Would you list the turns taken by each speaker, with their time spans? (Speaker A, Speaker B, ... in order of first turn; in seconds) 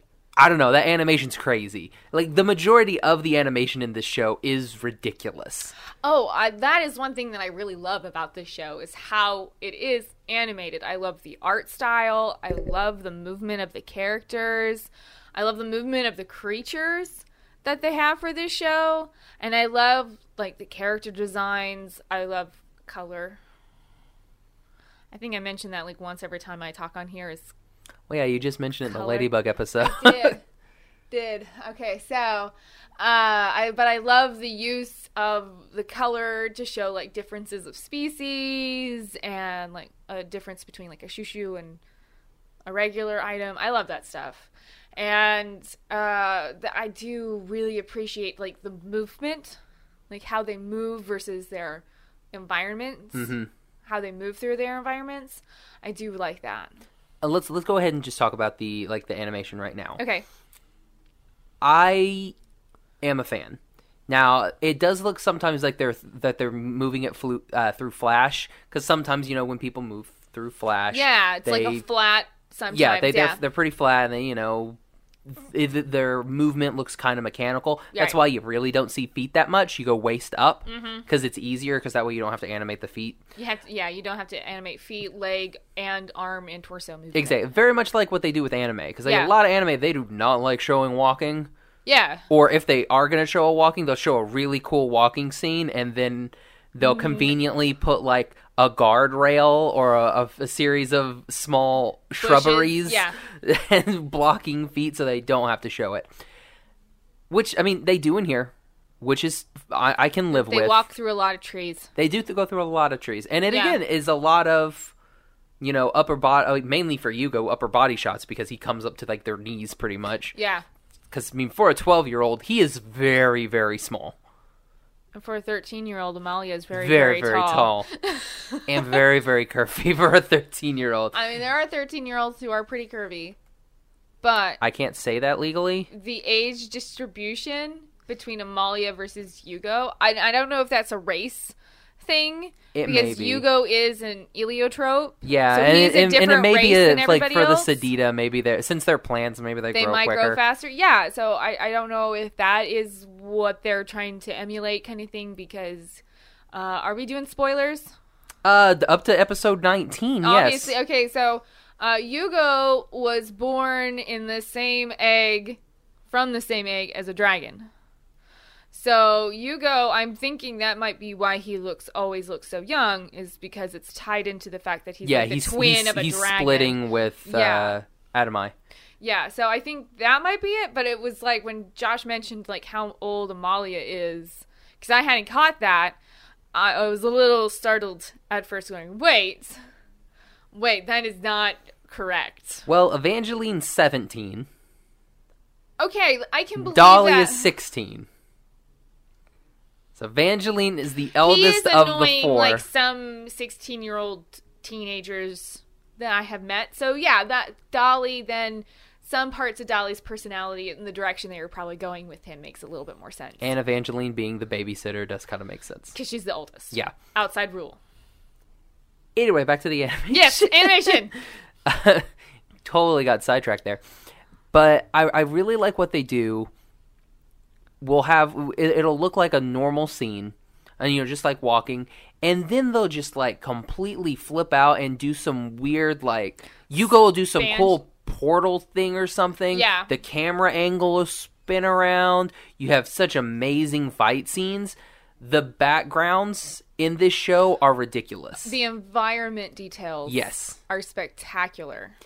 Speaker A: 0.4-5.7, 28.1-30.4, 53.1-53.5, 57.2-60.0, 61.6-62.4, 63.0-71.8, 72.7-83.2, 87.1-91.5, 92.3-106.1, 107.3-110.8, 112.0-114.9, 115.6-120.3, 121.1-124.2, 126.7-127.9, 128.7-131.2, 134.6-135.9, 142.7-143.4, 145.2-150.4, 158.4-160.7, 175.0-178.5, 192.7-194.5, 196.6-198.1, 199.9-202.6, 213.4-216.0, 219.2-222.1, 222.6-223.8, 224.5-226.5, 227.8-248.6, 250.1-250.6
Speaker B: 6.0-23.4, 25.1-27.5, 28.9-30.4, 31.1-41.8, 42.7-49.6, 50.1-53.3, 53.9-56.7, 60.0-60.2, 70.9-73.4, 80.7-81.1, 83.4-87.4, 89.0-89.3, 91.9-92.3, 96.8-97.3, 102.2-103.2, 110.3-111.9, 113.5-113.8, 120.3-120.7, 125.1-129.0, 131.1-133.4, 134.2-134.6, 135.9-147.8, 149.7-157.9, 160.2-167.7, 168.7-177.8, 179.0-186.0, 186.5-189.6, 190.5-192.7, 195.8-197.5, 201.2-213.5, 215.9-217.8, 220.1-221.2, 237.3-237.8, 239.5-239.9, 248.4-252.0